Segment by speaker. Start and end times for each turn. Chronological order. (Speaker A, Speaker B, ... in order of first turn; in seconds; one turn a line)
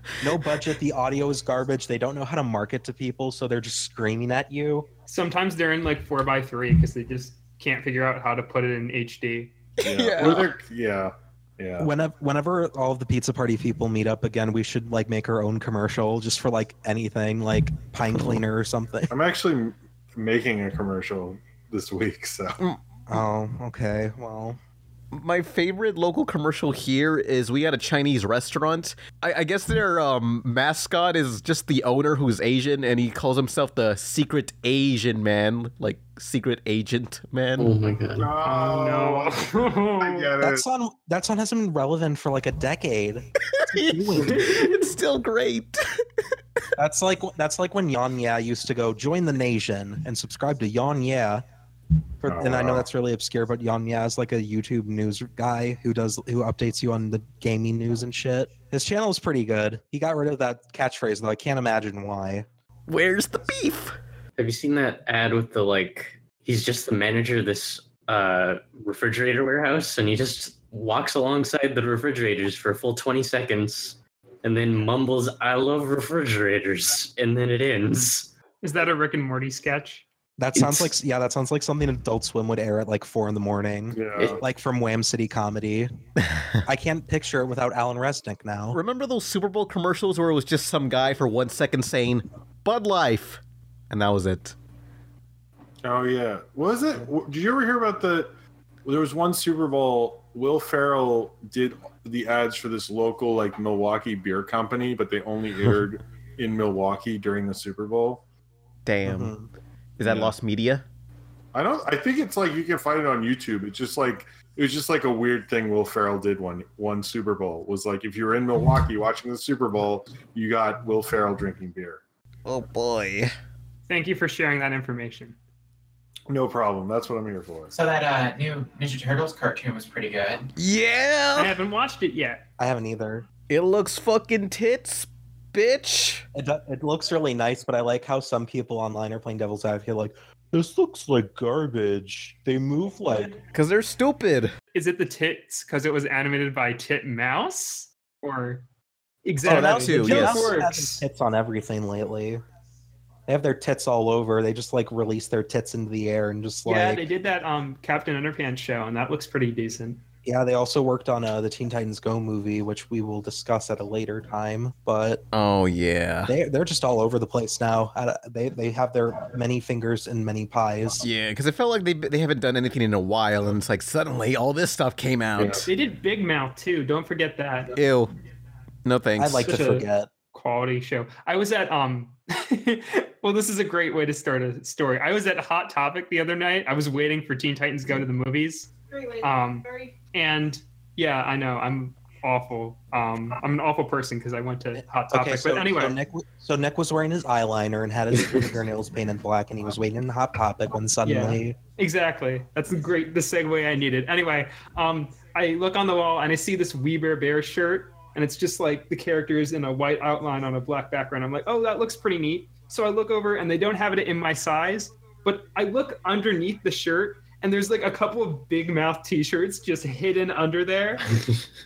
Speaker A: 0.2-4.9
Speaker B: 5.1-9.6
Speaker C: 9.8-10.5
Speaker D: 9.8-11.9
Speaker A: 11.8-19.1
Speaker D: 19.1-22.6
Speaker A: 23.1-24.6
Speaker C: 25.1-37.7
Speaker E: 37.6-38.4
Speaker D: 38.2-40.6
Speaker B: 38.4-40.3
Speaker A: 40.4-44.5
Speaker C: 43.5-45.8
Speaker A: 46.8-51.4
Speaker A: 52.2-62.5
Speaker D: 52.2-52.9
Speaker C: 62.9-64.0
Speaker E: 64.4-78.3
Speaker B: 78.6-80.0
Speaker A: 80.4-85.9
Speaker E: 80.6-80.9
Speaker D: 83.9-84.4
Speaker A: 86.6-88.8
Speaker C: 88.7-94.5
Speaker D: 95.8-98.3
Speaker D: 98.9-108.2
Speaker C: 108.9-109.3
Speaker A: 109.0-109.5
Speaker C: 110.0-110.8
Speaker D: 110.0-110.3
Speaker D: 111.5-122.0
Speaker C: 122.5-123.3
Speaker B: 123.9-125.4
Speaker D: 126.3-127.7
Speaker F: 127.7-130.5
Speaker C: 130.6-131.5
Speaker B: 131.4-132.4
Speaker A: 132.6-133.3
Speaker C: 133.5-136.3
Speaker A: 136.3-143.4
Speaker C: 143.5-144.5
Speaker B: 144.7-148.6
Speaker B: 149.2-151.0
Speaker A: 149.4-152.4
Speaker C: 149.4-150.5
Speaker A: 153.3-157.1
Speaker B: 156.6-160.0
Speaker A: 160.2-165.2
Speaker C: 165.3-166.3
Speaker A: 166.3-171.1
Speaker C: 171.0-175.7
Speaker D: 175.4-175.7
Speaker B: 175.7-177.7
Speaker C: 177.7-178.1
Speaker C: 178.8-179.6
Speaker A: 179.2-180.1
Speaker B: 179.4-196.0
Speaker A: 194.7-201.6
Speaker B: 201.0-221.0